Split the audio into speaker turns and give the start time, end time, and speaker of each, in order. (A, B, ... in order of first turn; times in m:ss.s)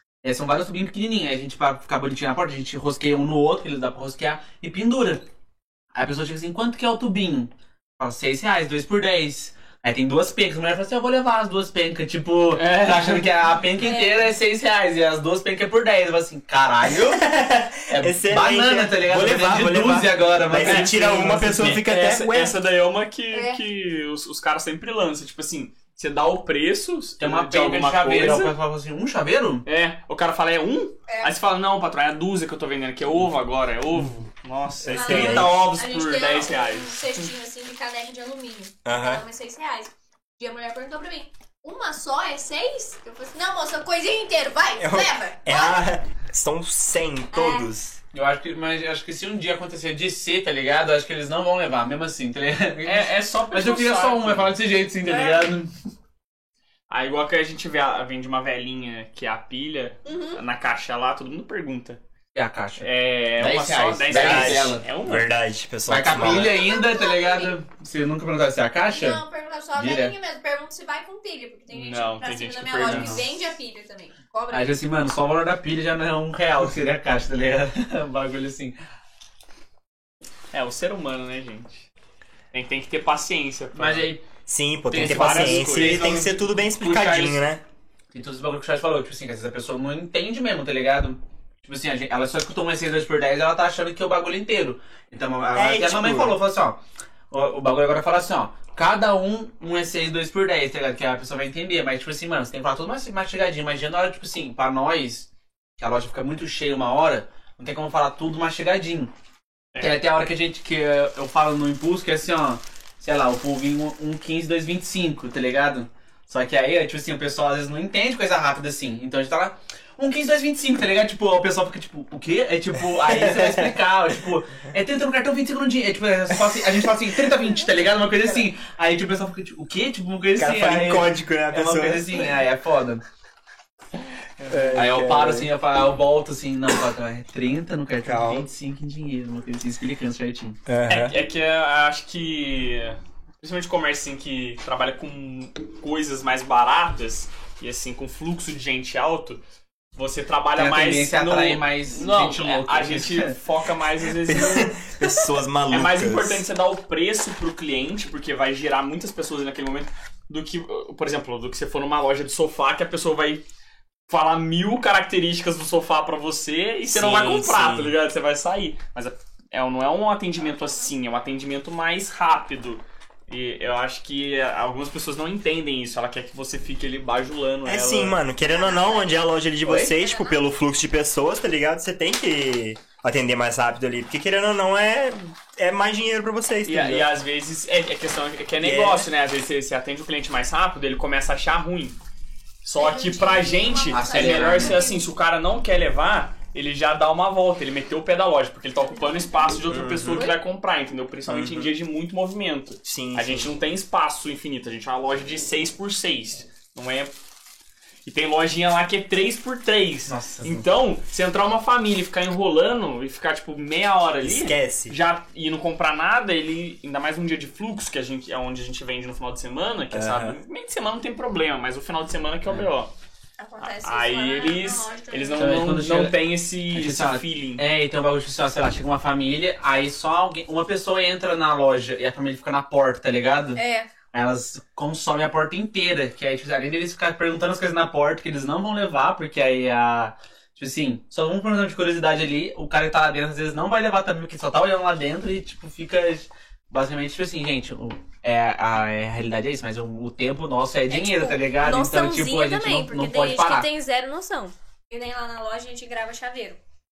0:00.2-0:05.3 A
0:06.0-0:17.3 A
0:12.6-0:13.3 B
0:13.8-0:14.2 C
0:17.0-0:22.6 D
0:17.9-0:21.8 A
0:20.6-0:28.5 B
0:23.3-0:23.6 C
0:27.2-0:29.6 A
0:29.7-0:37.3 B
0:34.9-0:35.5 D
0:34.9-0:45.8 C
0:38.8-0:39.2 D
0:44.8-0:48.0 D
0:47.3-0:47.7 C
0:48.1-0:55.7 A
0:52.8-0:55.5 B
0:56.9-1:02.0 B
1:00.1-1:00.4 C
1:02.4-1:04.9 A
1:02.8-1:05.3 B
1:04.1-1:06.6 D
1:05.9-1:09.2 A
1:06.3-1:07.6 C
1:08.9-1:14.8 C
1:09.8-1:10.1 A
1:11.7-1:13.3 B
1:12.8-1:13.2 A
1:14.5-1:18.8 A
1:20.5-1:21.9 B
1:22.5-1:24.1 B
1:23.8-1:24.2 A
1:24.5-1:27.6 D
1:24.9-1:27.3 A
1:24.9-1:26.3 B
1:26.8-1:27.4 B
1:28.1-1:49.1 A
1:35.6-1:36.4 D
1:49.7-1:50.0 B
1:49.8-2:13.0 A
2:03.0-2:03.8 D
2:10.4-2:12.3 D
2:14.4-2:14.8 B
2:14.5-2:15.5 D
2:14.8-2:20.6 A
2:18.0-2:18.5 D
2:20.7-2:21.2 D
2:20.9-2:29.4 B
2:30.0-2:35.0 B
2:30.6-2:33.4 A
2:34.2-2:36.4 D
2:35.7-2:43.4 B
2:44.1-2:58.2 B
2:46.9-2:47.9 D
2:57.7-3:07.1 D
2:58.4-3:00.4 C
2:59.6-2:59.9 A
3:06.7-3:12.0 B
3:08.6-3:09.1 D
3:12.6-3:27.1 B
3:12.8-3:15.1 C
3:13.9-3:14.8 A
3:19.7-3:20.3 D
3:21.3-3:21.7 D
3:22.8-3:23.5 D
3:28.1-3:42.9 B
3:30.1-3:30.7 A
3:34.2-3:35.0 D
3:39.9-3:40.4 D
3:43.4-3:45.5 C
3:43.6-3:47.6 B
3:45.4-3:46.2 A
3:46.7-3:53.6 A
3:53.6-3:53.9 C
3:54.1-4:13.7 A
4:10.9-4:16.6 C